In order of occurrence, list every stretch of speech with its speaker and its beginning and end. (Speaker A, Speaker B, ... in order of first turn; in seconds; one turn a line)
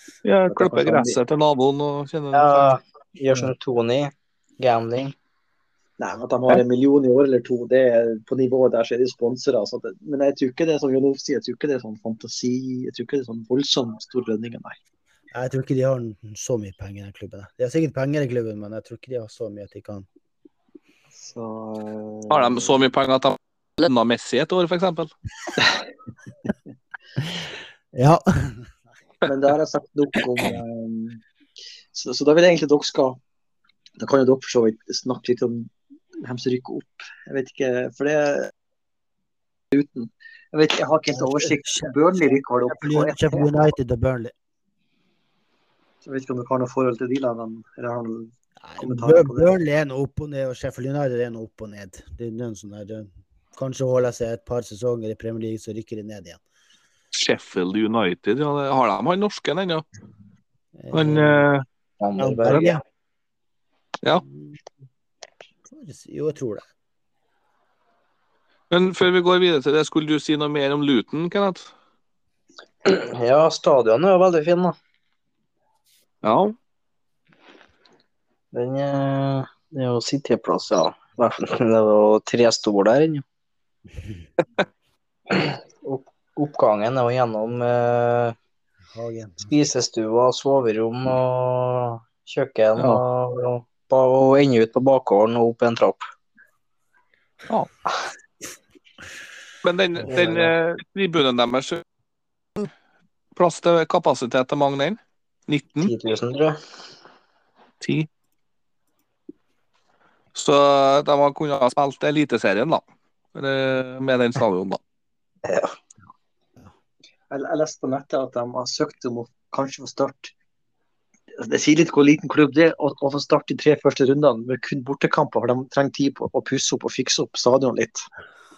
Speaker A: 0.2-2.7
Speaker B: 0.5-1.2
Speaker C: 2.3-5.1
Speaker B: 6.0-14.8
Speaker D: 15.3-20.1
Speaker B: 21.2-22.8
Speaker A: 22.3-25.1
Speaker D: 27.9-28.7
Speaker B: 29.2-31.2
Speaker B: 31.9-33.2
Speaker B: 34.0-38.5
Speaker B: 39.7-43.5
Speaker D: 41.1-44.3
Speaker B: 46.0-49.5
Speaker D: 48.6-56.4
Speaker A: 57.1-59.8
Speaker D: 60.8-61.4
Speaker A: 60.9-61.6
Speaker C: 62.0-62.8
Speaker D: 62.2-62.8
Speaker D: 64.3-64.6
Speaker D: 65.7-66.7
Speaker A: 68.7-71.7
Speaker C: 72.8-74.7
Speaker A: 76.2-76.5
Speaker C: 78.5-83.2
Speaker C: 85.3-88.3
Speaker D: 88.9-89.5
Speaker C: 89.5-96.0
Speaker A: 92.8-93.0
Speaker A: 99.6-101.8
Speaker C: 100.1-100.5
Speaker A: 103.3-105.9
Speaker C: 105.8-106.6
Speaker A: 107.8-108.1
Speaker A: 110.3-112.8
Speaker A: 113.3-114.8
Speaker C: 115.4-115.7
Speaker B: 117.3-120.3
Speaker B: 121.4-128.0